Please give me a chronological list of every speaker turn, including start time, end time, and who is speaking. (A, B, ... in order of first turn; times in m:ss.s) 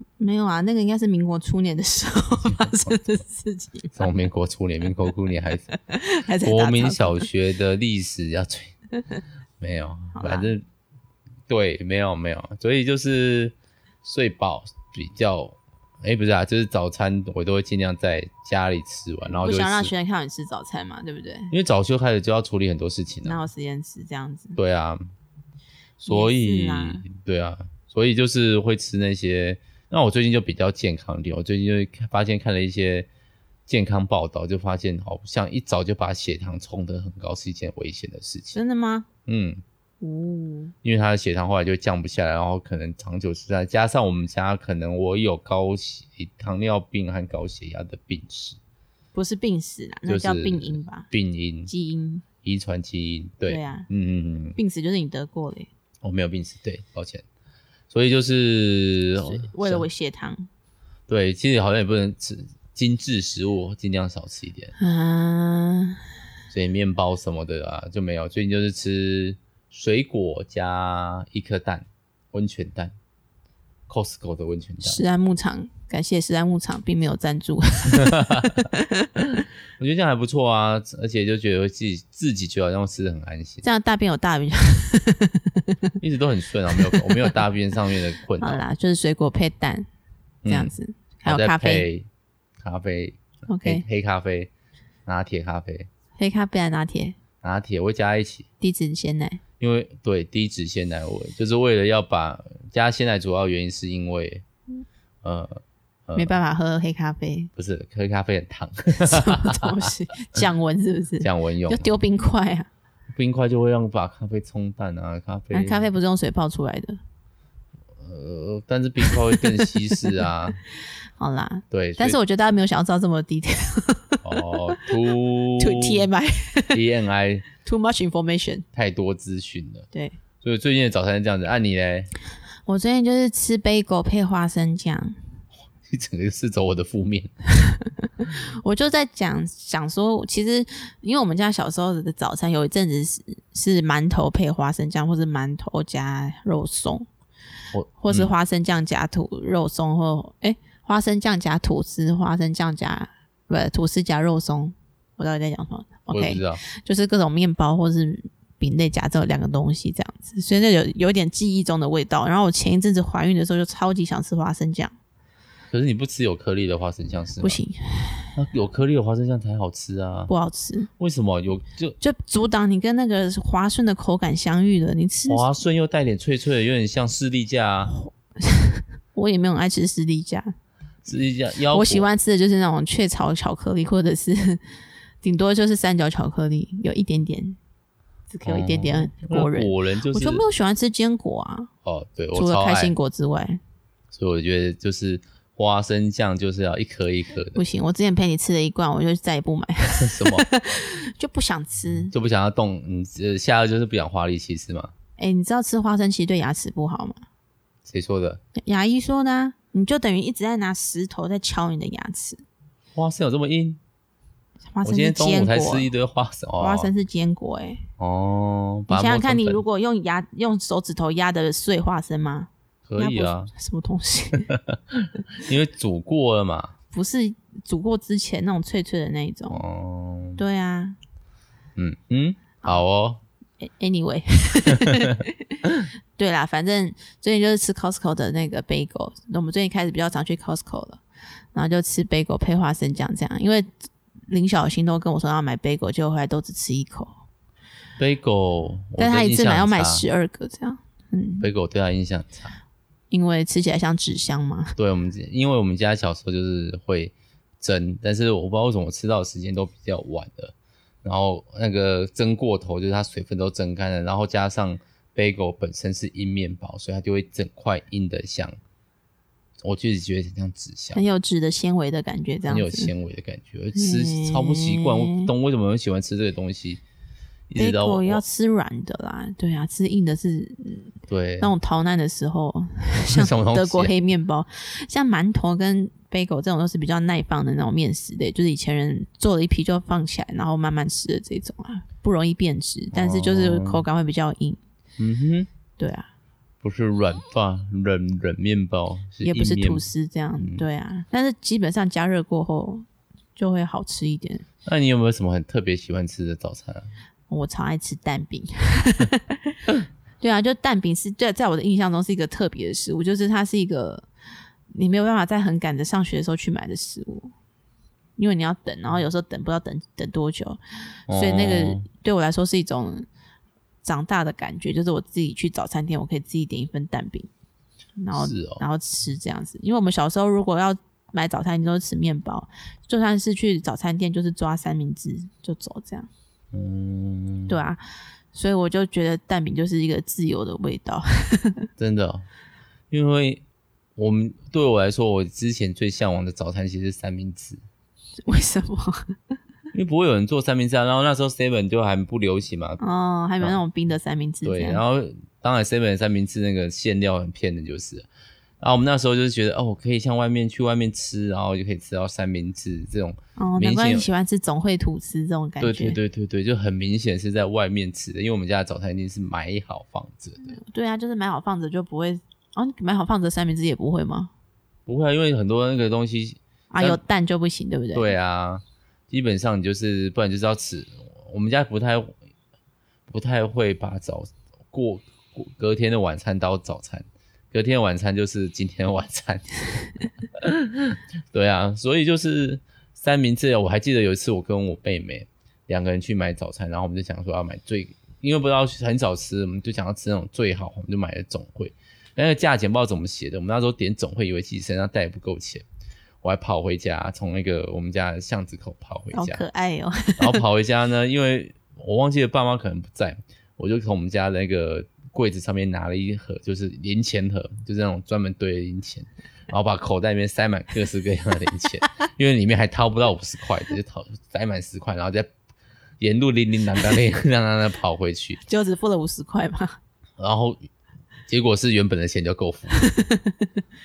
0:00.2-0:04.1 A
0:02.3-0:03.0 B
0:03.9-0:05.7 B
0:05.7-0:07.3 A
0:06.4-0:08.7 B
0:09.6-0:10.6 B
0:10.1-0:10.5 A
0:11.5-0:19.9 B
0:19.3-0:21.5 A
0:21.5-0:23.4 B
0:23.2-0:24.6 A
0:24.6-0:25.0 B
0:26.0-0:33.1 B
0:26.1-0:27.0 A
0:33.7-0:38.6 B
0:38.5-0:39.1 A
0:39.3-0:39.6 B
0:40.0-0:40.7 A
0:40.8-0:48.6 B
0:49.1-0:51.1 A
0:50.1-0:51.7 B
0:51.7-0:52.2 A
0:52.4-0:54.6 B
0:53.5-0:53.9 A
0:54.6-0:55.7 A
0:56.0-0:57.2 B
0:57.9-0:59.9 B
0:59.2-1:00.5 A
1:01.1-1:04.7 B
1:04.8-1:06.0 A
1:06.5-1:12.9 B
1:13.9-1:15.0 B
1:14.8-1:19.1 A
1:17.9-1:18.7 B
1:19.3-1:23.6 B
1:23.6-1:25.9 A
1:26.0-1:28.6 B
1:26.7-1:27.4 A
1:28.4-1:29.9 A
1:30.4-1:30.7 B
1:30.5-1:31.9 A
1:31.2-1:32.1 B
1:32.6-1:34.5 B
1:33.5-1:33.8 A
1:35.0-1:35.9 B
1:36.2-1:37.2 A
1:37.4-1:38.5 B
1:38.6-1:39.4 A
1:39.6-1:44.4 B
1:45.2-1:46.4 B
1:46.2-1:47.5 A
1:47.6-1:49.9 B
1:49.0-1:52.7 A
1:51.2-1:51.9 B
1:53.1-1:55.9 B
1:55.5-1:57.0 A
1:58.0-2:00.6 B
1:59.0-2:00.2 A
2:01.2-2:04.8 A
2:01.7-2:02.2 B
2:04.2-2:06.1 B
2:05.6-2:06.8 A
2:06.7-2:07.5 B
2:07.6-2:08.6 A
2:08.7-2:09.9 B
2:10.4-2:12.1 B
2:12.6-2:15.2 A
2:15.8-2:17.3 B
2:17.6-2:27.1 A
2:27.7-2:28.3 B
2:28.0-2:44.9 A
2:36.1-2:36.6 B
2:45.7-2:47.6 B
2:47.4-2:48.3 A
2:48.3-2:50.3 B
2:50.3-2:50.9 A
2:51.0-2:52.0 B
2:52.0-2:55.4 A
2:55.3-2:57.9 B
2:58.4-3:00.5 A
3:01.0-3:02.0 B
3:01.7-3:04.6 A
3:05.2-3:07.6 A
3:08.3-3:11.7 A
3:08.4-3:10.4 B
3:11.8-3:12.9 B
3:12.3-3:13.6 A
3:14.1-3:17.6 B
3:17.5-3:22.1 A
3:20.0-3:20.4 B
3:22.1-3:24.9 B
3:25.2-3:27.2 A
3:27.8-3:28.4 B
3:28.5-3:32.4 A
3:33.0-3:33.8 B
3:34.7-3:35.9 A
3:34.8-3:36.9 B
3:36.6-3:37.8 A
3:38.0-3:39.6 B
3:38.9-3:44.5 A
3:42.9-3:43.5 B
3:44.5-3:46.7 B
3:46.9-3:49.6 A
3:49.5-3:50.4 B
3:50.4-3:51.0 A
3:51.8-3:53.2 B
3:53.6-3:55.6 A
3:54.8-3:55.2 B
3:56.2-4:01.0 A
4:01.5-4:03.7 A
4:04.3-4:07.1 A
4:08.0-4:10.0 B
4:09.0-4:11.5 A
4:11.4-4:12.6 B
4:13.1-4:14.7 A
4:14.8-4:28.6 B
4:29.6-4:31.0 B
4:30.9-4:32.9 A
4:32.4-4:36.8 B
4:33.7-4:35.3 A
4:37.5-4:38.2 B
4:37.6-4:54.6 A
4:41.1-4:41.5 B
4:43.1-4:43.9 B
4:52.9-4:53.8 B
4:55.0-4:55.5 B
4:55.8-4:56.1 A
4:56.6-4:59.9 B
4:59.2-5:04.4 A
5:00.4-5:00.6 B
5:04.6-5:06.9 B
5:07.3-5:09.6 A
5:10.2-5:14.1 A
5:14.7-5:17.3 A
5:18.2-5:23.1 A
5:21.1-5:21.9 B
5:23.8-5:27.3 A
5:28.0-5:36.1 A
5:28.1-5:28.6 B
5:36.5-5:37.6 B
5:37.5-5:37.8 A
5:38.3-5:41.7 A
5:41.8-5:42.2 B
5:42.9-5:43.4 B
5:44.0-5:47.6 B
5:48.2-5:49.2 A
5:49.7-5:52.8 B
5:52.8-5:54.8 A
5:54.4-5:58.0 B
5:58.6-6:04.1 B
6:03.4-6:06.0 A
6:05.6-6:10.6 B
6:10.4-6:14.3 A
6:14.9-6:17.0 B
6:16.7-6:18.1 A
6:17.9-6:22.2 B
6:23.1-6:45.6 B
6:46.2-6:49.4 B
6:49.1-6:50.4 A
6:50.2-7:05.3 B
7:06.0-7:08.4 B
7:08.5-7:09.8 A
7:10.2-7:10.6 B
7:11.3-7:12.8 B
7:12.7-7:13.5 A